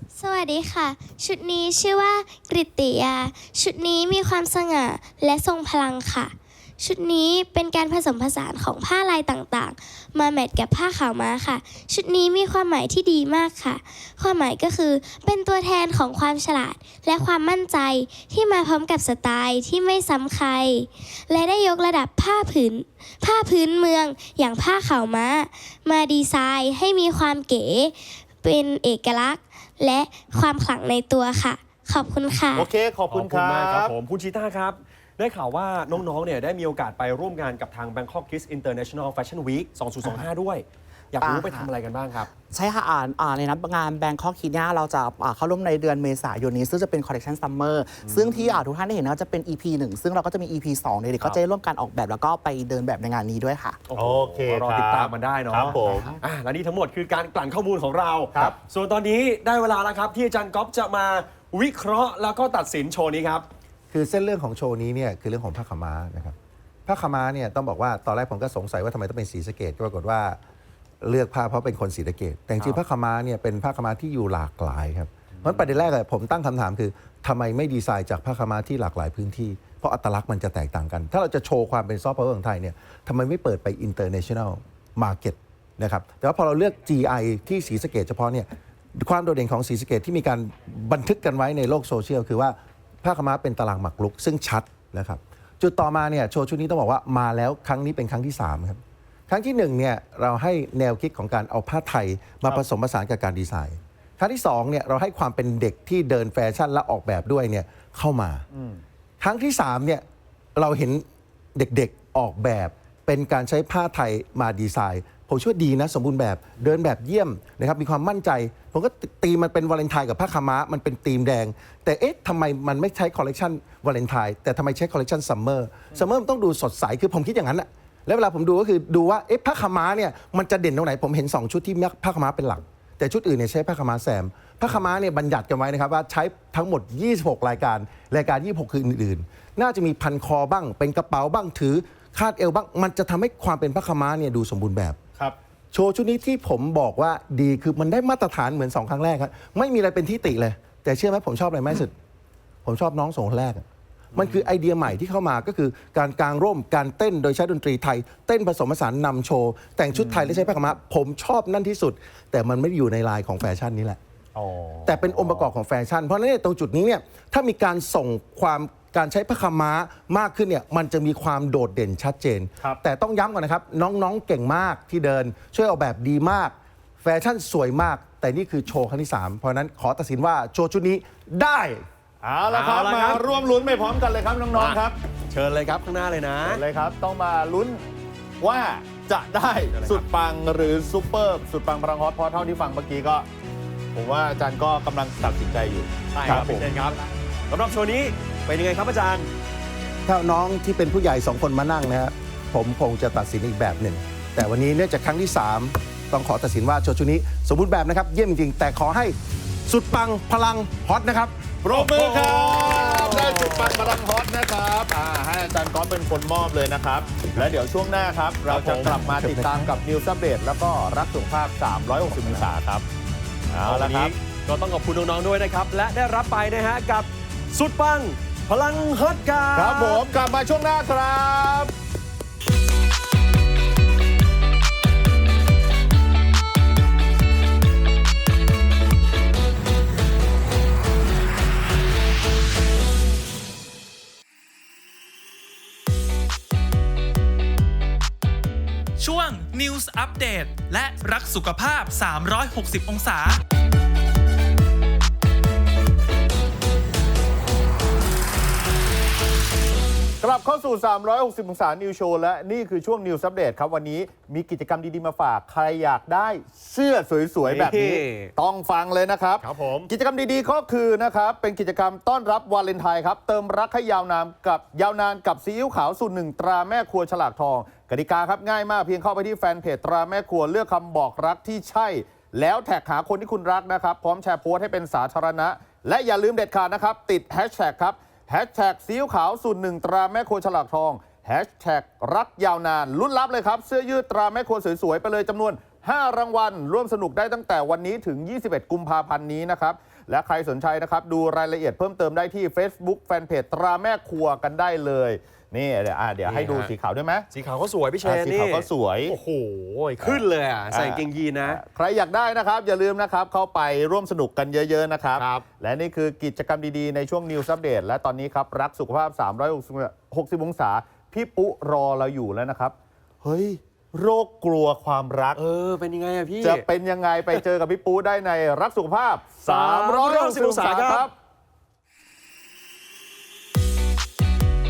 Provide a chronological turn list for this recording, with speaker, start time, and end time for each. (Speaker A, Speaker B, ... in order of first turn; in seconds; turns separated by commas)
Speaker A: 0.1-32.7, Speaker B: 32.5-33.9, Speaker C: 33.1-42.3, Speaker D: 41.2-41.7, Speaker D: 42.4-53.8, Speaker C: 48.0-48.6, Speaker C: 53.9-63.5, Speaker B: 54.0-56.2, Speaker D: 55.6-56.1, Speaker E: 63.9-66.3, Speaker E: 66.9-70.4, Speaker E: 71.0-108.4, Speaker B: 108.5-108.8, Speaker E: 109.2-110.0, Speaker E: 110.6-145.0, Speaker E: 145.7-151.9, Speaker E: 152.7-164.0, Speaker B: 160.0-160.4, Speaker B: 164.3-165.5, Speaker E: 164.8-181.9, Speaker B: 182.2-185.0, Speaker C: 182.5-183.2, Speaker C: 184.5-186.6, Speaker B: 186.4-187.8, Speaker B: 188.4-193.3, Speaker C: 189.7-190.0, Speaker B: 193.9-196.8, Speaker C: 196.1-197.0, Speaker C: 197.5-199.3, Speaker E: 200.1-211.3, Speaker B: 211.6-222.9, Speaker C: 211.7-213.8, Speaker C: 218.5-218.8, Speaker E: 218.5-219.7, Speaker B: 223.5-224.1, Speaker C: 223.6-230.0, Speaker B: 229.6-231.7, Speaker F: 249.0-253.4, Speaker B: 260.2-307.3, Speaker C: 267.4-268.3, Speaker C: 269.4-269.9, Speaker C: 306.3-306.7, Speaker C: 307.3-311.6, Speaker B: 308.0-309.2, Speaker B: 310.0-325.4, Speaker C: 315.2-315.4, Speaker C: 325.4-326.6, Speaker B: 326.4-331.1, Speaker C: 329.4-331.1